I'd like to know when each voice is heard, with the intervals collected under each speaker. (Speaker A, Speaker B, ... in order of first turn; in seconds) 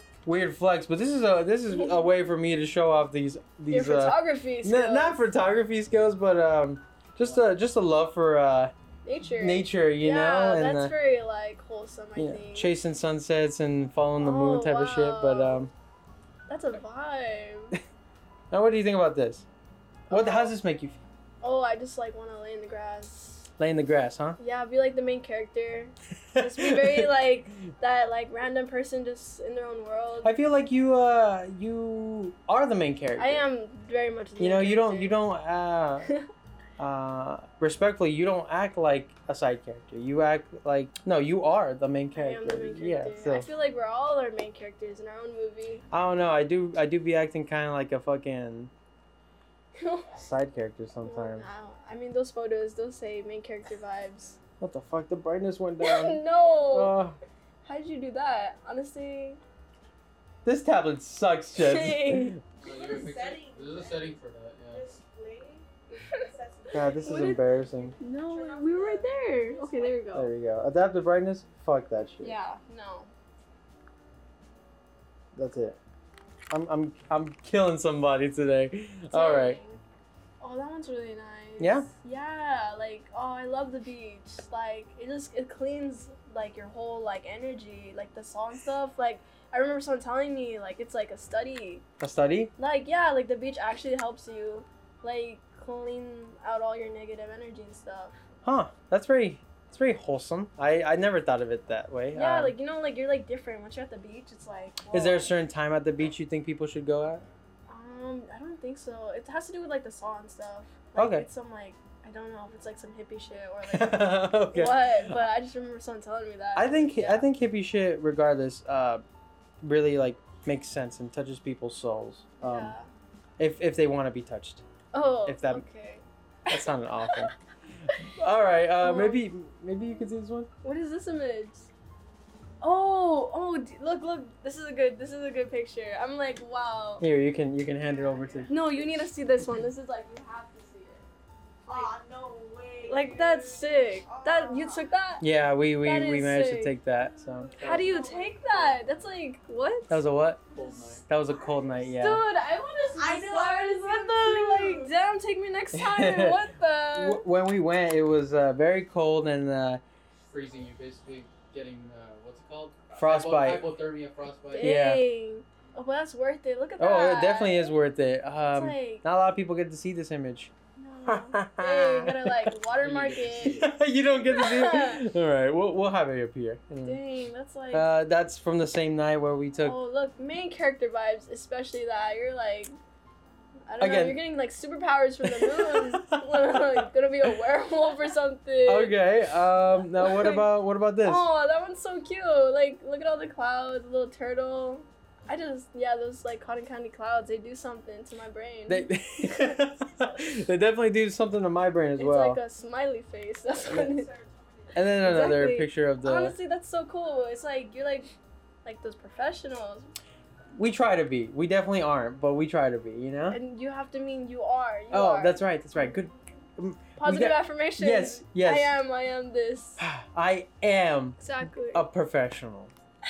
Speaker A: 0.2-8.7, 9.4-10.9, 12.2-15.7, 18.5-19.4, 20.1-21.0, 23.6-24.4, 26.3-27.1, 30.2-33.4, 34.4-36.1, 36.8-43.5, 45.9-48.7, 50.1-51.5, 54.6-57.2, 60.4-62.4, 66.7-67.9, 70.1-72.3, 75.3-75.8, 76.5-79.6, 81.6-81.9, 92.0-92.5, 98.4-102.5, 104.9-107.2, 111.0-111.3, 113.7-115.2, 116.5-119.0, 119.6-122.7, 123.4-124.6, 125.2-125.6, 126.5-127.3, 128.0-130.5, 137.0-138.5, 145.2-147.5, 149.9-150.4, 151.1-152.2, 155.7-159.8, 162.9-163.7, 164.6-165.0, 166.8-170.5, 171.1-172.5, 173.4-177.0, 177.7-179.8, 183.8-184.2, 185.2-186.8, 188.7-191.2, 198.7-202.4, 204.7-206.4, 210.6-213.4, 214.9-218.7, 219.8-221.2, 221.7-222.7
Speaker B: 1.7-1.9, 3.7-5.2, 9.0-12.7, 14.2-15.7, 16.5-17.8, 20.1-20.5, 21.4-23.5, 24.4-30.3, 33.2-35.1, 42.1-45.8, 49.8-50.1, 51.0-54.4, 55.8-56.9, 57.6-59.4, 61.5-62.4, 67.0-67.4, 68.0-70.3, 72.2-73.1, 79.1-79.8, 80.4-91.8, 92.6-98.2, 102.1-105.3, 107.7-117.2, 122.4-122.9, 124.9-127.3, 128.8-129.2, 130.6-131.7, 132.6-137.1, 138.5-141.1, 141.7-141.9, 142.9-145.3, 145.8-146.7, 147.6-150.0, 151.9-157.2, 164.5-167.7, 168.5-169.0, 170.8-173.6, 174.3-175.0, 176.8-177.9, 179.6-182.7, 183.7-189.0, 189.9-190.5, 191.0-199.6, 202.0-204.1, 204.9-208.1, 208.6-209.9, 213.3-215.4, 217.0-219.8, 221.2-221.9
Speaker C: 62.6-64.2, 64.7-70.1, 137.8-138.8, 141.7-144.9, 147.6-148.8, 151.2-151.9, 152.9-154.9, 203.7-204.8
Speaker D: 62.6-64.9, 147.6-147.9, 150.5-151.0, 160.3-164.8, 172.8-173.7